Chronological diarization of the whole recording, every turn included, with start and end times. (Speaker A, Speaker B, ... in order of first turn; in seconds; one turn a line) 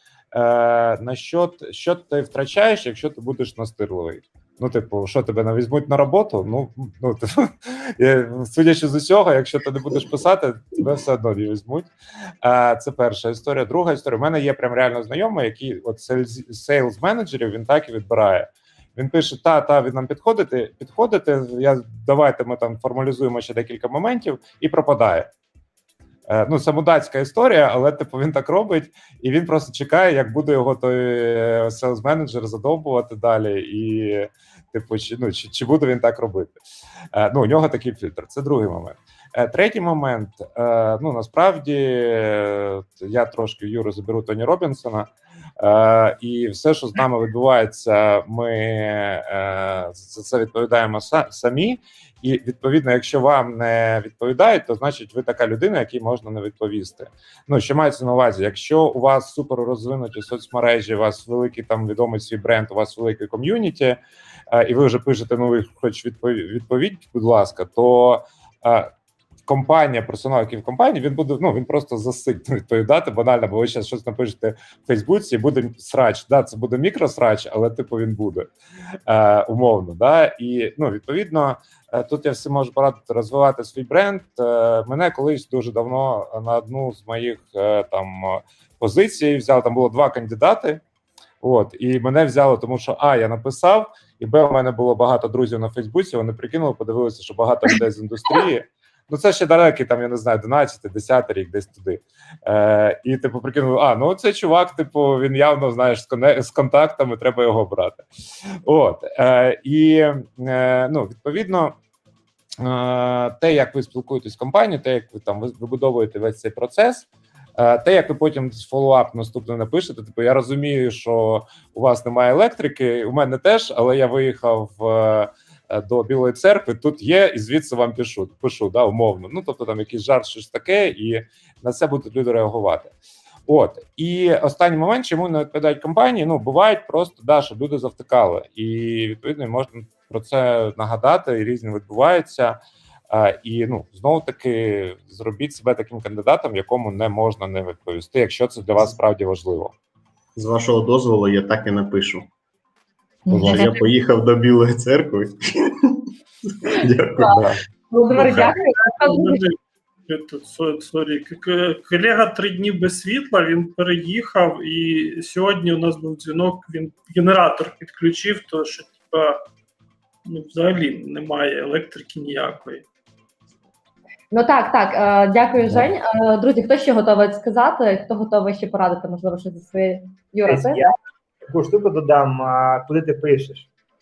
Speaker A: 0.3-11.9
Speaker A: 12.4-25.3
Speaker A: 26.3-36.6
Speaker A: 37.1-45.1
Speaker A: 45.6-64.0
Speaker A: 64.5-68.9
Speaker A: 69.5-78.5
Speaker A: 79.1-90.8
Speaker A: 91.4-108.1
Speaker A: 108.7-111.8
Speaker A: 112.6-132.9
Speaker A: 133.5-142.6
Speaker A: 143.1-149.7
Speaker B: 150.4-152.3
Speaker C: 153.3-153.8
Speaker A: 153.3-153.7
Speaker B: 153.3-156.0
Speaker B: 156.8-157.2
Speaker A: 157.3-157.6
Speaker C: 157.9-159.4
Speaker A: 158.1-158.6
Speaker D: 159.0-159.6
Speaker D: 160.1-169.4
Speaker D: 170.2-172.8
Speaker C: 174.3-180.8
Speaker E: 180.5-180.9
Speaker E: 181.4-183.7